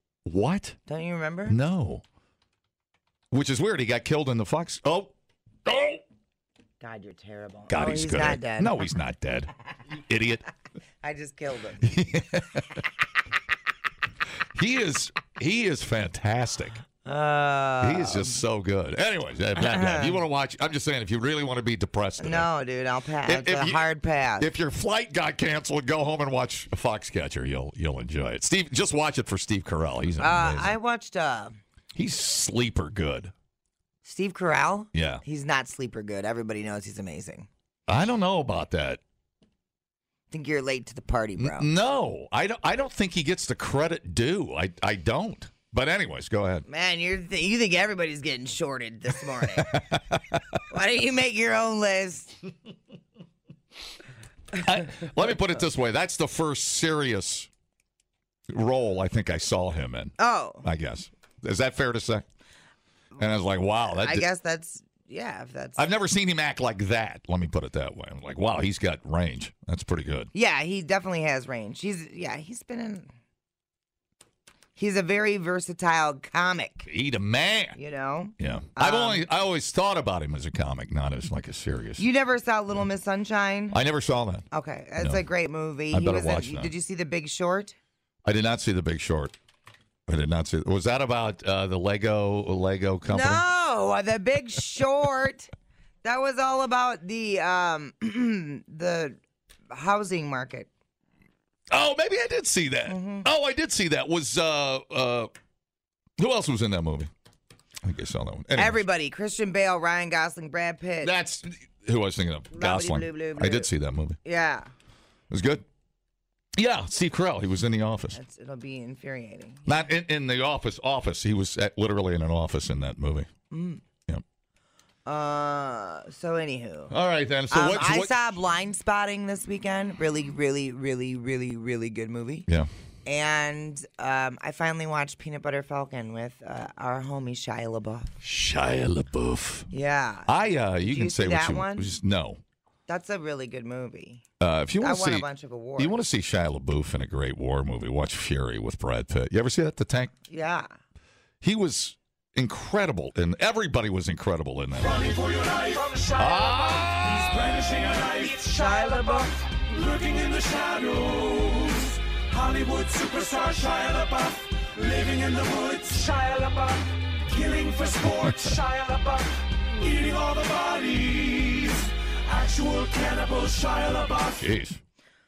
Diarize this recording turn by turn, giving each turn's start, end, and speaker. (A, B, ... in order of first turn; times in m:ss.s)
0:00.3-0:00.8 A
0:00.9-0:01.6 B
0:01.5-0:02.0 A
0:03.3-0:05.1 A
0:05.6-0:06.0 A
0:06.8-0:08.8 B
0:07.7-0:10.4 A
0:11.0-0:11.8 B
0:11.8-0:12.8 A
0:14.6-0:16.8 A
0:17.0-0:18.4 B
0:17.8-0:22.5 A
0:19.6-0:20.2 B
0:22.2-0:24.5 B
0:23.3-0:23.8 A
0:24.4-0:30.8 A
0:30.2-0:31.6 B
0:32.0-0:33.3 A
0:34.0-0:37.5 B
0:34.9-0:35.2 A
0:37.9-0:39.0 A
0:40.3-0:41.7 B
0:41.4-0:46.6 A
0:46.7-0:49.8 B
0:49.7-0:50.2 A
0:50.7-0:52.3 B
0:54.6-0:57.5 A
0:58.5-1:02.2 A
1:00.2-1:00.6 B
1:03.2-1:04.2 A
1:03.9-1:05.8 B
1:05.8-1:10.3 A
1:10.3-1:13.1 B
1:14.8-1:16.9 B
1:16.9-1:17.8 A
1:17.8-1:19.3 B
1:18.4-1:22.0 A
1:22.0-1:23.8 B
1:23.7-1:24.5 A
1:24.5-1:27.8 B
1:25.9-1:26.7 A
1:28.2-1:29.3 A
1:30.1-1:33.4 A
1:33.1-1:35.5 B
1:36.0-1:39.2 B
1:39.7-1:40.7 B
1:41.7-1:45.3 A
1:42.9-1:43.3 B
1:46.2-1:47.1 A
1:47.8-1:48.8 A
1:48.6-1:51.1 B
1:51.0-1:54.2 A
1:52.5-1:53.7 B
1:54.2-1:54.7 B
1:55.3-1:55.6 A
1:56.6-1:58.2 A
1:58.1-1:59.7 B
1:59.7-2:03.3 A
2:03.5-2:03.8 B
2:05.1-2:06.9 B
2:06.9-2:08.1 A
2:07.5-2:12.5 B
2:13.1-2:18.1 B
2:18.2-2:19.7 A
2:19.7-2:20.3 B
2:20.3-2:22.4 A
2:20.8-2:21.9 B
2:22.9-2:24.2 B
2:24.4-2:30.1 A
2:24.8-2:26.0 B
2:30.3-2:30.7 B
2:31.4-2:35.0 A
2:34.8-2:54.5 C
2:36.2-2:37.5 A
2:38.6-2:39.3 B
2:54.4-2:54.8 A